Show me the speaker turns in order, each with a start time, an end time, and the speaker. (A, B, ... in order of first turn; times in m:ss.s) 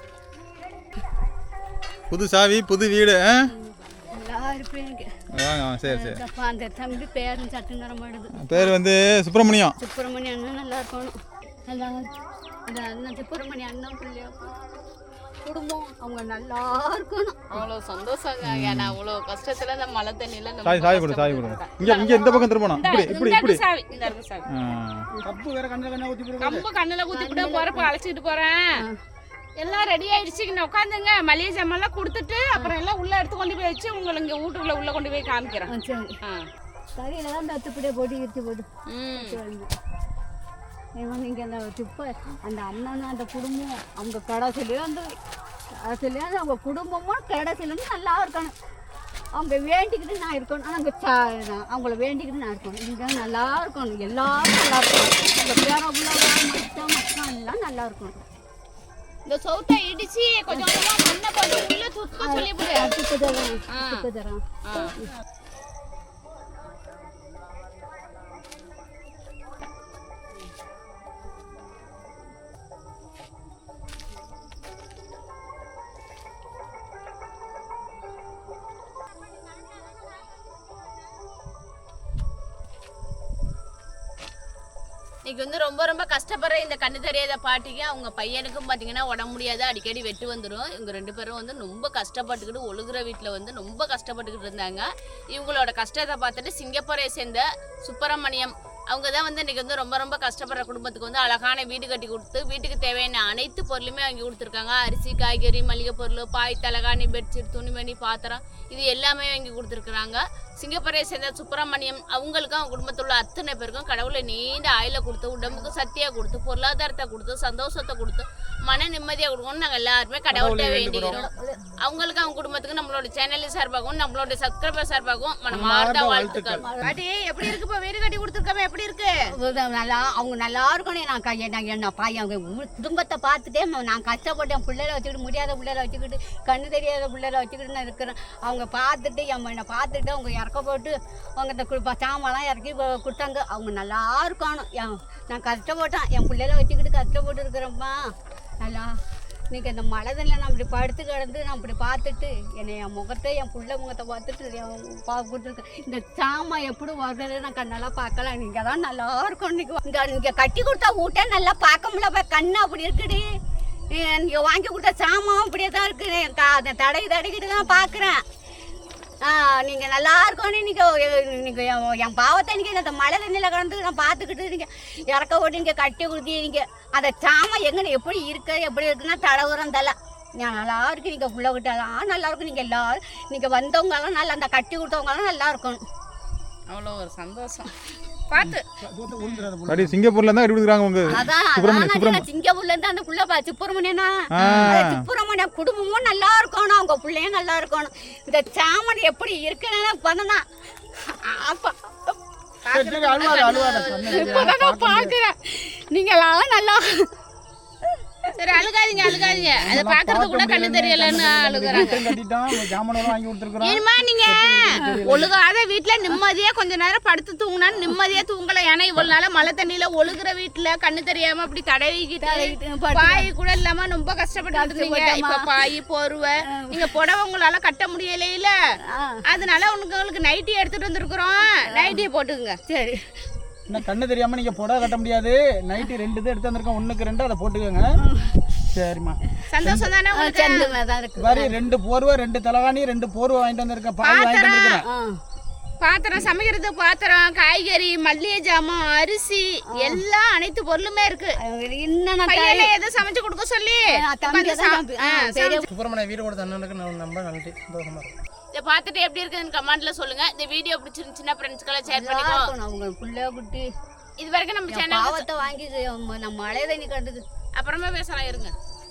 0:02.1-0:03.5 A
0:04.1-0:05.2 B
0:05.3-0:06.2 A
0:05.9-0:08.7 B
0:08.4-0:09.7 A
0:09.8-0:12.1 B
0:12.7-0:14.6 B
0:15.4-0:17.5 B
0:17.5-0:24.5 C
0:18.4-0:19.0 A
0:20.6-0:23.6 A
0:24.5-0:25.1 A
0:25.2-0:26.6 D
0:26.4-0:28.7 C
0:27.1-0:27.9 B
0:29.6-0:35.7 C
0:35.7-0:36.2 B
0:37.0-0:39.7 B
0:38.9-0:39.4 C
0:41.0-0:45.1 B
0:45.8-0:48.5 B
0:49.3-0:58.2 B
0:59.2-1:02.9 C
1:00.5-1:00.8 B
1:02.2-1:04.4 B
1:03.7-1:04.0 C
1:04.6-1:04.9 C
1:25.2-2:01.3 C
2:00.3-2:01.2 D
2:01.0-2:01.8 B
2:01.8-2:09.1 C
2:05.5-2:06.7 D
2:06.6-2:07.0 B
2:09.3-2:29.0 B
2:29.5-2:43.2 B
2:43.9-2:48.2 B
2:49.2-3:05.8 B
3:06.7-3:07.7 C
3:08.3-3:08.6 C
3:08.8-3:09.9 D
3:09.7-3:12.3 A
3:11.1-3:20.4 B
3:14.3-3:15.0 A
3:14.4-3:14.7 C
3:21.1-3:22.2 B
3:22.6-3:24.5 C
3:22.7-3:25.1 D
3:24.0-3:27.1 B
3:28.2-3:28.6 B
3:28.4-3:32.0 C
3:29.0-3:35.3 D
3:31.6-3:32.0 B
3:33.6-3:48.6 C
3:34.8-3:35.0 B
3:42.2-3:43.3 B
3:44.5-3:45.5 B
3:46.4-3:46.9 B
3:48.9-3:49.2 B
3:49.2-3:52.6 C
3:51.4-3:52.0 B
3:52.6-3:53.1 B
3:53.7-3:58.0 D
3:58.0-3:58.4 B
3:58.7-3:59.9 D
3:59.5-4:00.7 C
4:00.1-4:01.5 B
4:01.2-4:04.8 D
4:04.0-4:04.8 C
4:04.8-4:05.2 B
4:05.8-4:11.4 C
4:09.7-4:10.0 B
4:11.4-4:12.7 B
4:12.3-4:15.6 C
4:13.9-4:15.6 B
4:15.6-4:18.1 E
4:18.5-4:22.5 C
4:21.9-4:23.7 B
4:24.2-4:25.2 C
4:24.7-4:27.2 B
4:27.6-4:28.5 C